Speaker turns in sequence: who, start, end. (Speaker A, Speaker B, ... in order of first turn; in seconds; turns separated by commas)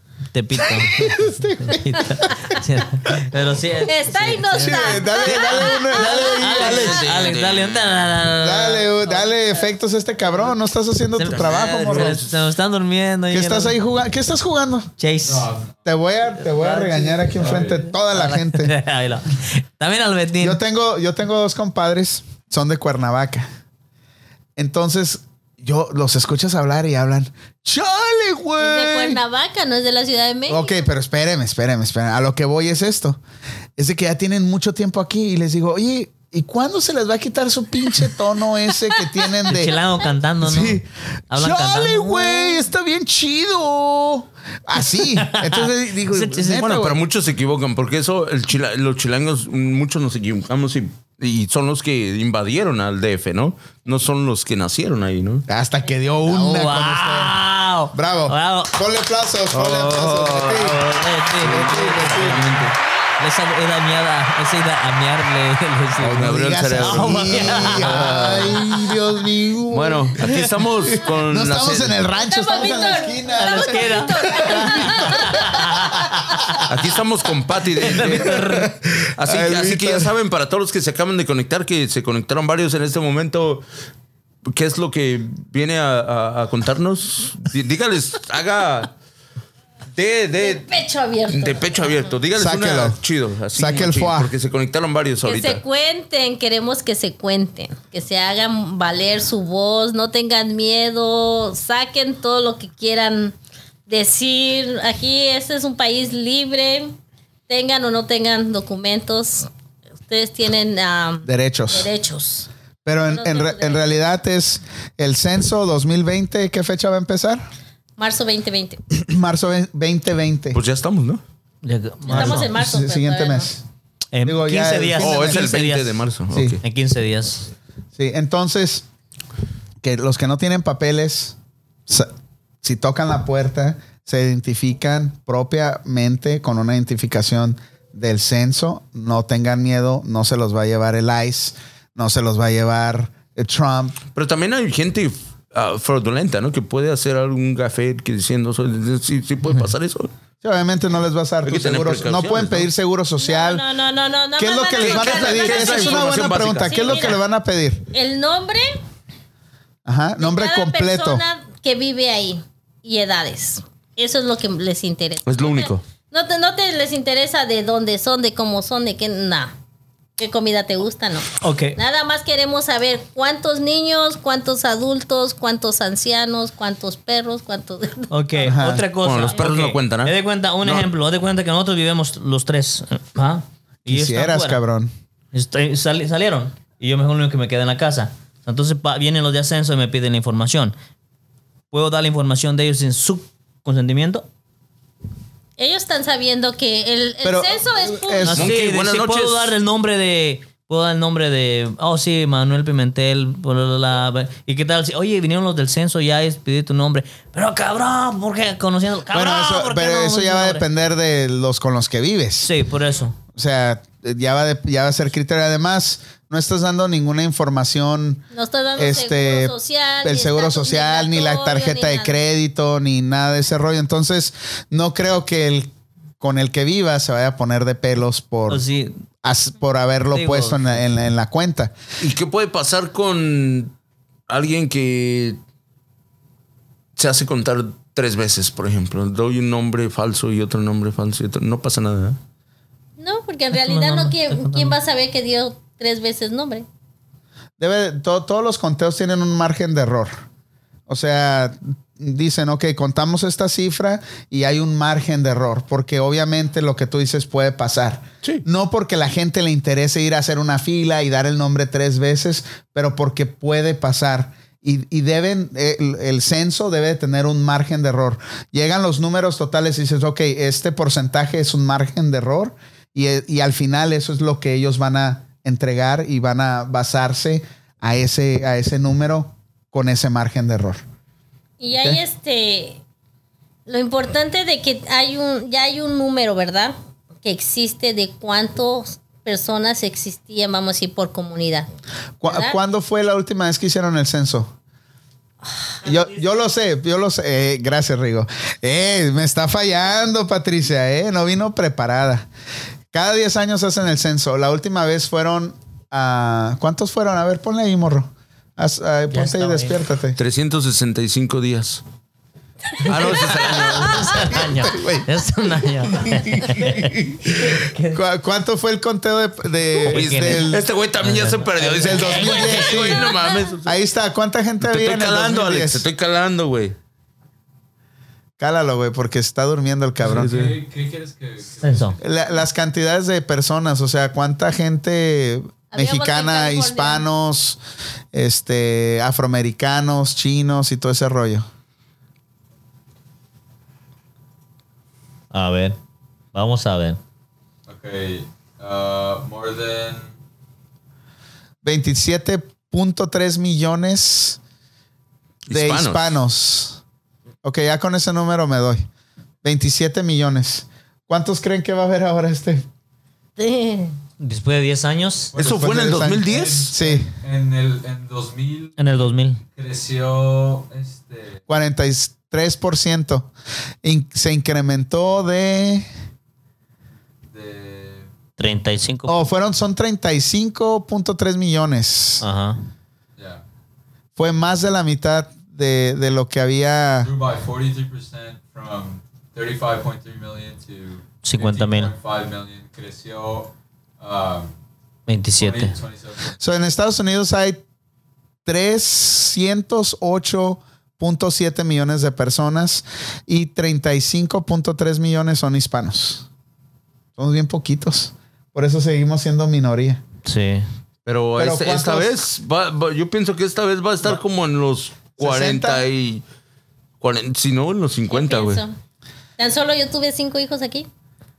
Speaker A: 0.3-9.2, Speaker B: 0.6-2.5, Speaker C: 3.8-6.6, Speaker B: 4.6-7.1, Speaker D: 6.5-8.1, Speaker B: 8.4-12.2, Speaker A: 11.2-13.8, Speaker D: 11.2-12.4, Speaker B: 13.3-14.9, Speaker A: 15.0-15.5, Speaker E: 15.2-15.8, Speaker B: 15.9-18.7, Speaker A: 16.4-20.6, Speaker E: 17.4-17.8, Speaker B: 20.4-23.5, Speaker B: 24.6-29.2, Speaker C: 28.6-30.9, Speaker B: 30.5-33.2, Speaker B: 33.8-39.8, Speaker A: 39.5-42.6, Speaker B: 40.4-47.0, Speaker A: 45.0-46.7, Speaker D: 46.5-55.5, Speaker B: 55.5-57.4, Speaker A: 56.3-58.8, Speaker B: 57.9-60.8, Speaker D: 59.5-60.8, Speaker A: 60.6-68.2, Speaker B: 61.4-62.6, Speaker D: 61.4-62.6, Speaker B: 66.0-76.3, Speaker D: 66.1-68.7, Speaker D: 69.7-72.0, Speaker C: 72.2-75.5, Speaker A: 73.4-76.7, Speaker D: 76.7-83.7, Speaker A: 77.8-78.7, Speaker B: 77.8-80.1, Speaker D: 84.5-88.9, Speaker D: 89.9-90.7, Speaker C: 90.4-91.7, Speaker D: 91.3-95.6, Speaker B: 92.3-93.0, Speaker B: 93.5-94.3, Speaker C: 95.2-103.4, Speaker C: 103.9-107.0, Speaker C: 107.5-109.5, Speaker C: 110.1-112.5, Speaker B: 111.2-111.9, Speaker B: 112.8-117.4, Speaker C: 113.1-113.9, Speaker C: 118.0-118.8, Speaker B: 118.9-120.6, Speaker D: 120.5-121.2, Speaker A: 121.6-122.7, Speaker B: 122.1-123.6, Speaker C: 122.1-123.5, Speaker A: 124.1-126.0, Speaker B: 124.2-125.5, Speaker D: 125.0-126.6, Speaker B: 126.3-126.6, Speaker A: 126.6-127.5, Speaker B: 128.0-128.8, Speaker B: 129.8-131.3, Speaker B: 132.6-144.0, Speaker D: 144.1-150.1, Speaker B: 150.4-153.6, Speaker D: 151.4-152.7, Speaker C: 153.2-157.2, Speaker B: 154.4-157.9, Speaker D: 154.8-157.1, Speaker C: 157.9-158.8, Speaker B: 159.9-161.2, Speaker C: 160.2-169.5, Speaker D: 165.2-165.8, Speaker C: 170.2-178.4, Speaker A: 171.4-171.8, Speaker A: 178.1-184.6, Speaker B: 178.4-178.9, Speaker D: 179.0-180.9, Speaker B: 183.8-184.9, Speaker A: 185.3-190.8, Speaker A: 191.7-194.3, Speaker C: 195.6-198.3, Speaker B: 197.2-198.5, Speaker A: 198.2-210.7, Speaker D: 198.3-199.5, Speaker B: 209.1-212.5, Speaker A: 212.4-213.2, Speaker B: 213.3-218.2, Speaker C: 218.3-222.2, Speaker B: 218.8-228.7, Speaker A: 228.5-229.0, Speaker B: 229.2-231.7, Speaker A: 230.1-230.8, Speaker D: 232.0-233.7, Speaker D: 234.3-235.4, Speaker D: 236.9-242.2, Speaker C: 243.0-246.7, Speaker A: 243.5-244.8, Speaker B: 247.6-250.2, Speaker B: 250.9-280.8, Speaker C: 281.6-282.8, Speaker C: 283.7-291.7, Speaker B: 292.2-294.5, Speaker C: 292.3-292.6, Speaker B: 295.8-302.3, Speaker B: 302.9-310.2, Speaker A: 309.1-309.8, Speaker D: 310.2-311.8, Speaker D: 312.8-314.4, Speaker B: 313.1-315.1, Speaker A: 313.9-318.0, Speaker B: 315.9-320.7, Speaker A: 319.9-322.6, Speaker D: 319.9-323.8, Speaker B: 321.7-323.1, Speaker C: 322.2-323.5, Speaker B: 323.6-325.9, Speaker D: 324.6-326.8, Speaker B: 328.4-330.5, Speaker E: 330.0-332.1, Speaker D: 330.0-330.6, Speaker A: 331.6-332.0, Speaker B: 332.0-337.6, Speaker C: 335.7-337.0, Speaker B: 338.1-341.5, Speaker A: 345.3-345.8, Speaker A: 346.3-347.0, Speaker E: 347.7-350.1, Speaker B: 351.6-354.4, Speaker D: 355.4-356.2, Speaker B: 355.5-356.8, Speaker B: 357.4-358.9, Speaker B: 359.4-362.7, Speaker C: 363.4-363.9, Speaker A: 364.2-365.3, Speaker E: 365.3-369.0, Speaker D: 365.4-366.7, Speaker B: 365.4-367.1, Speaker A: 368.8-369.4, Speaker E: 369.5-371.4, Speaker B: 371.5-373.3, Speaker B: 373.8-375.9, Speaker E: 377.3-378.1, Speaker A: 378.4-379.2, Speaker B: 379.1-382.2, Speaker A: 382.2-382.6, Speaker E: 383.2-383.4, Speaker B: 384.2-387.1, Speaker E: 387.0-394.5, Speaker A: 391.2-391.9, Speaker A: 395.1-395.8, Speaker E: 395.3-396.4, Speaker B: 396.4-397.6, Speaker B: 398.4-406.3, Speaker B: 407.2-410.0, Speaker A: 410.2-410.7, Speaker D: 411.1-416.2, Speaker B: 411.4-412.2, Speaker B: 415.2-415.9, Speaker D: 417.0-418.6, Speaker C: 418.1-418.8, Speaker C: 419.4-420.9